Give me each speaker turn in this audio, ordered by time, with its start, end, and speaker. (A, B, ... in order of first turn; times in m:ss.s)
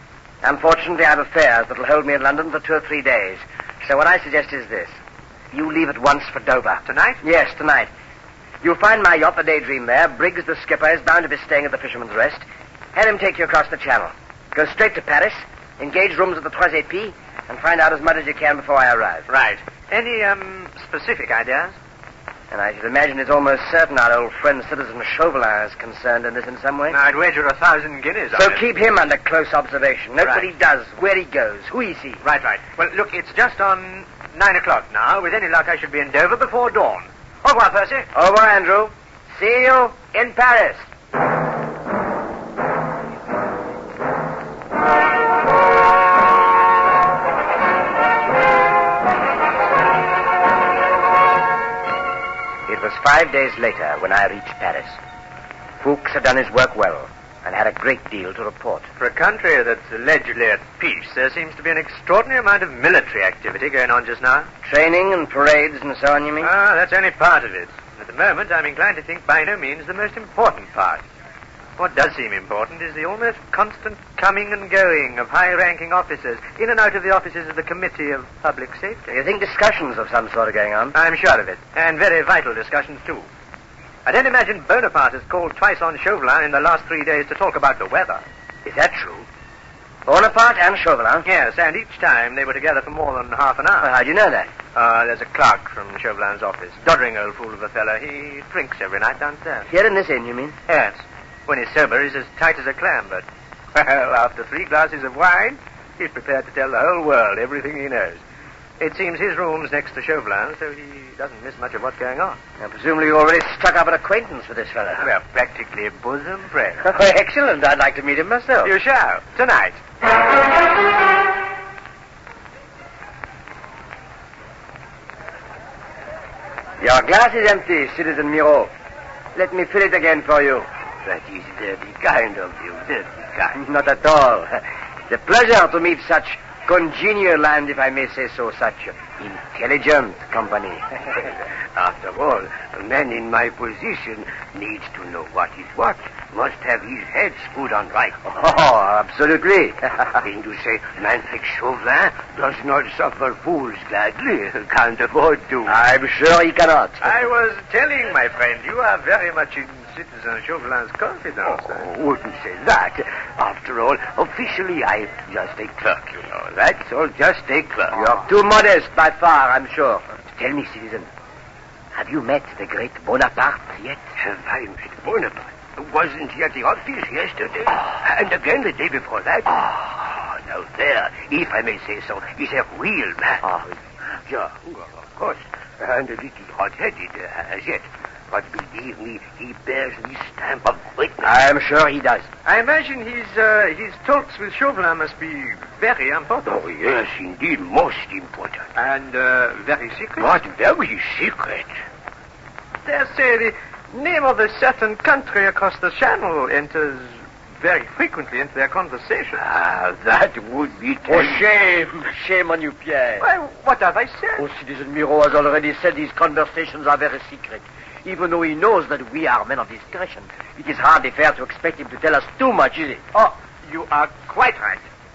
0:00.4-0:05.0 A
0:05.5-0:07.9 A
0:06.9-0:07.2 B
0:08.6-0:19.3 A
0:19.3-0:21.7 B
0:22.5-0:27.0 A
0:26.9-0:28.6 B
0:28.3-0:32.2 A
0:32.2-0:38.1 B
0:38.1-0:40.9 A
0:52.7-0:55.0 A
0:55.8-0:58.9 A
0:59.0-1:04.5 B
1:04.6-1:06.5 A
1:06.4-1:11.0 B
1:11.8-1:19.0 B
1:19.1-1:21.0 A
1:20.9-1:23.2 B
1:24.1-1:28.2 B
1:28.7-1:29.3 A
1:30.1-1:31.3 A
1:31.2-1:33.9 B
1:33.8-1:34.5 A
1:34.8-1:39.6 B
1:39.7-1:40.6 A
1:40.7-1:43.2 B
1:43.8-1:48.2 B
1:48.8-1:52.4 B
1:52.6-1:55.1 A
1:55.0-1:56.8 B
1:56.8-1:58.7 A
1:58.6-1:59.8 B
2:06.8-2:08.7 A
2:09.4-2:10.7 A
2:11.0-2:13.6 C
2:13.5-2:21.3 A
2:21.8-2:28.2 C
2:28.2-2:30.1 A
2:30.2-2:35.8 C
2:35.7-2:37.0 A
2:37.0-2:41.8 B
2:41.6-2:48.0 C
2:47.9-2:51.1 A
2:51.9-2:54.0 A
2:54.2-3:03.4 C
3:03.4-3:03.8 A
3:04.2-3:11.3 C
3:11.2-3:12.3 A
3:12.4-3:16.5 B
3:16.4-3:18.7 C
3:18.8-3:20.4 B
3:20.2-3:21.7 C
3:22.9-3:29.4 B
3:29.4-3:31.4 C
3:31.1-3:33.3 A
3:33.2-3:34.4 B
3:34.4-3:43.0 A
3:43.2-3:44.8 B